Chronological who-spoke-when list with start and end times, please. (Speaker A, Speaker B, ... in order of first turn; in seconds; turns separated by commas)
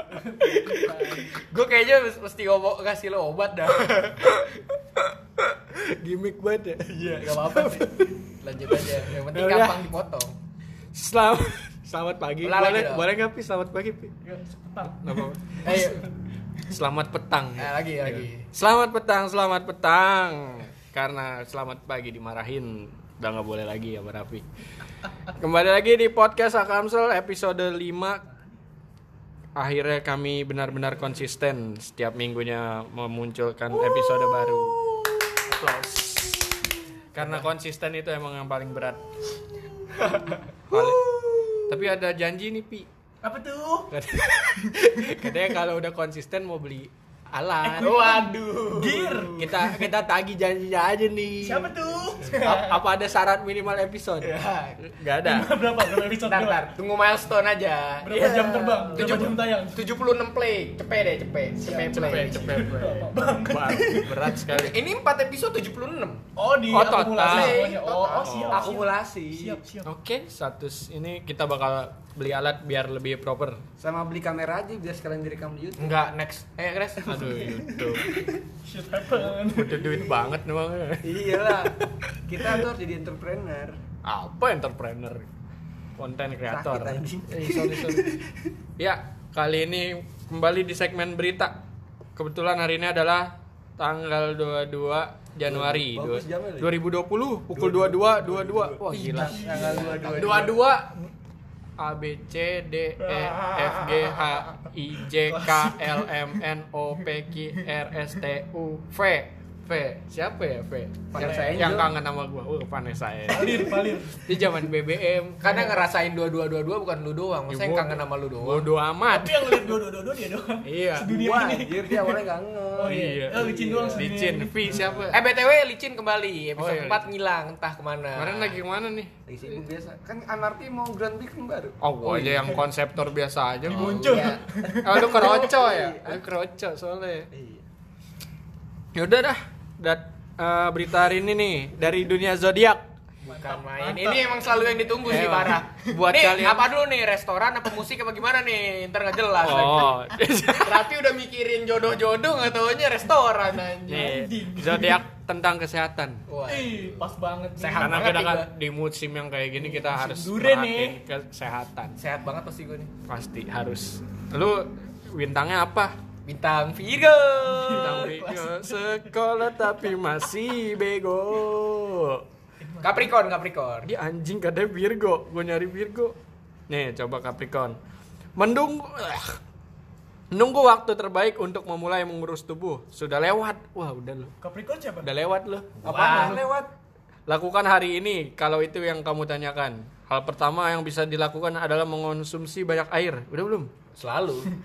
Speaker A: 0.1-1.4, Speaker B: 0.5-4.4, Speaker C: 5.7-8.1, Speaker A: 7.3-7.9, Speaker B: 8.4-10.4, Speaker C: 8.8-9.9, Speaker C: 10.9-14.1, Speaker B: 12.4-13.1, Speaker A: 14.2-15.2, Speaker C: 14.9-15.7, Speaker B: 15.6-16.1, Speaker C: 16.7-24.4, Speaker B: 17.6-18.5, Speaker C: 25.4-28.2, Speaker C: 29.6-39.0, Speaker C: 40.7-41.0, Speaker D: 40.7-41.6, Speaker C: 41.7-42.9, Speaker A: 43.2-43.9, Speaker C: 43.9-48.3, Speaker A: 47.6-49.4, Speaker B: 47.8-49.3, Speaker C: 49.4-51.7, Speaker A: 51.4-52.8, Speaker C: 52.3-55.6, Speaker A: 55.2-56.7, Speaker B: 56.2-62.5, Speaker A: 58.0-59.8, Speaker D: 58.2-58.9, Speaker A: 61.6-64.4, Speaker C: 61.9-64.8, Speaker B: 64.5-66.2, Speaker A: 66.4-69.9, Speaker C: 66.7-68.7, Speaker B: 67.2-68.7, Speaker D: 68.5-69.6, Speaker C: 69.8-73.6, Speaker D: 73.8-75.9, Speaker B: 75.8-77.3, Speaker C: 77.0-78.1, Speaker A: 77.1-77.7, Speaker D: 78.1-78.4, Speaker A: 78.7-80.1, Speaker C: 79.3-81.2, Speaker D: 81.0-83.8, Speaker C: 84.0-85.3, Speaker C: 86.0-88.1, Speaker D: 86.5-88.5, Speaker C: 88.8-91.6, Speaker C: 92.2-101.1, Speaker D: 95.5-96.7, Speaker D: 97.5-100.7, Speaker A: 99.1-100.5, Speaker C: 101.8-115.8, Speaker A: 103.0-104.3, Speaker A: 105.3-106.1, Speaker D: 111.1-111.9, Speaker B: 111.1-111.9, Speaker A: 111.2-111.6, Speaker A: 113.3-114.3, Speaker B: 115.4-118.7, Speaker C: 117.5-119.8, Speaker A: 119.1-122.2, Speaker C: 120.6-121.1, Speaker D: 121.0-124.1, Speaker A: 122.8-125.0, Speaker C: 122.8-125.2, Speaker D: 124.7-125.1, Speaker B: 125.1-128.6, Speaker C: 126.6-127.0, Speaker C: 128.2-129.1, Speaker D: 129.3-131.8, Speaker C: 131.8-134.2, Speaker A: 133.7-135.1, Speaker B: 133.7-134.4, Speaker D: 133.7-136.2, Speaker C: 134.8-137.3, Speaker D: 137.3-137.7, Speaker C: 138.9-142.8, Speaker B: 143.2-150.0, Speaker A: 143.2-145.3, Speaker C: 145.1-146.7, Speaker C: 149.4-150.9, Speaker B: 150.5-154.2, Speaker C: 153.9-156.2, Speaker A: 153.9-155.0, Speaker B: 156.3-156.9, Speaker A: 156.5-158.2, Speaker B: 157.6-158.5, Speaker C: 157.8-162.0, Speaker A: 159.6-161.0, Speaker B: 162.0-162.9, Speaker C: 163.1-165.9, Speaker B: 166.3-168.1, Speaker A: 167.5-169.0, Speaker C: 167.8-172.2, Speaker A: 172.6-173.1, Speaker B: 172.8-173.9, Speaker C: 173.9-176.2, Speaker C: 176.7-177.8, Speaker C: 178.4-179.4, Speaker C: 180.3-184.3, Speaker A: 184.4-185.1, Speaker C: 185.0-185.7, Speaker B: 185.8-186.4, Speaker D: 185.8-186.7, Speaker A: 186.1-186.3, Speaker C: 187.3-193.7, Speaker B: 194.0-194.5